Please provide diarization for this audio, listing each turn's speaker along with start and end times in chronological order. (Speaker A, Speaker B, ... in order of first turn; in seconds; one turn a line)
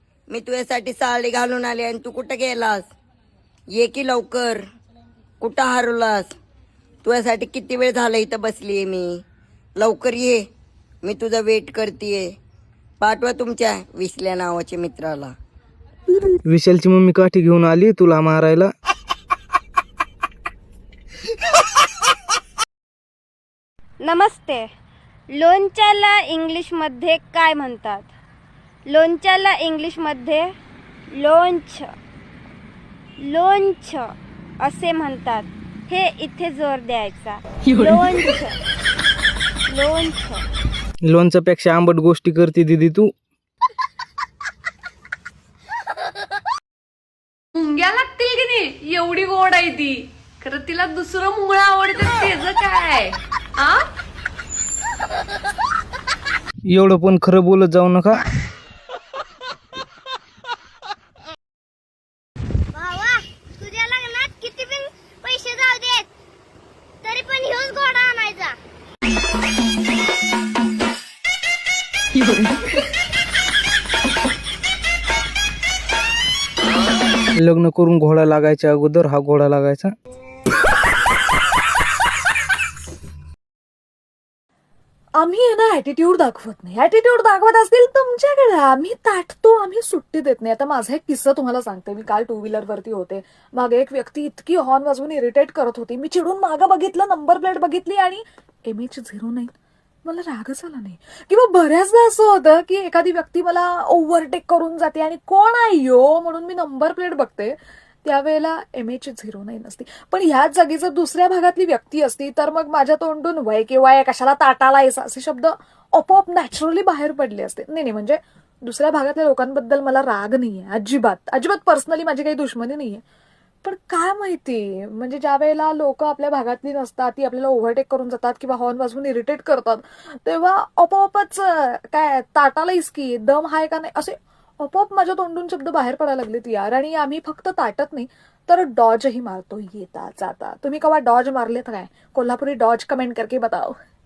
Speaker A: 0.3-2.9
Speaker A: 3.7-4.6
Speaker A: 5.4-6.3
Speaker A: 7.0-9.2
Speaker A: 9.8-10.4
Speaker A: 11.0-12.3
Speaker A: 13.0-15.3
Speaker B: 16.3-18.7
Speaker C: 24.0-24.7
Speaker C: 25.3-28.1
Speaker C: 28.9-30.5
Speaker C: 31.1-31.9
Speaker C: 33.2-38.6
Speaker D: 37.8-38.1
Speaker C: 39.7-40.5
Speaker B: 41.1-43.1
Speaker D: 47.5-53.9
Speaker B: 56.7-58.2
Speaker E: 62.7-66.1
Speaker E: 67.0-68.6
Speaker B: 77.3-79.9
Speaker F: 85.2-99.5
Speaker F: 100.0-123.0
Speaker F: 123.6-143.8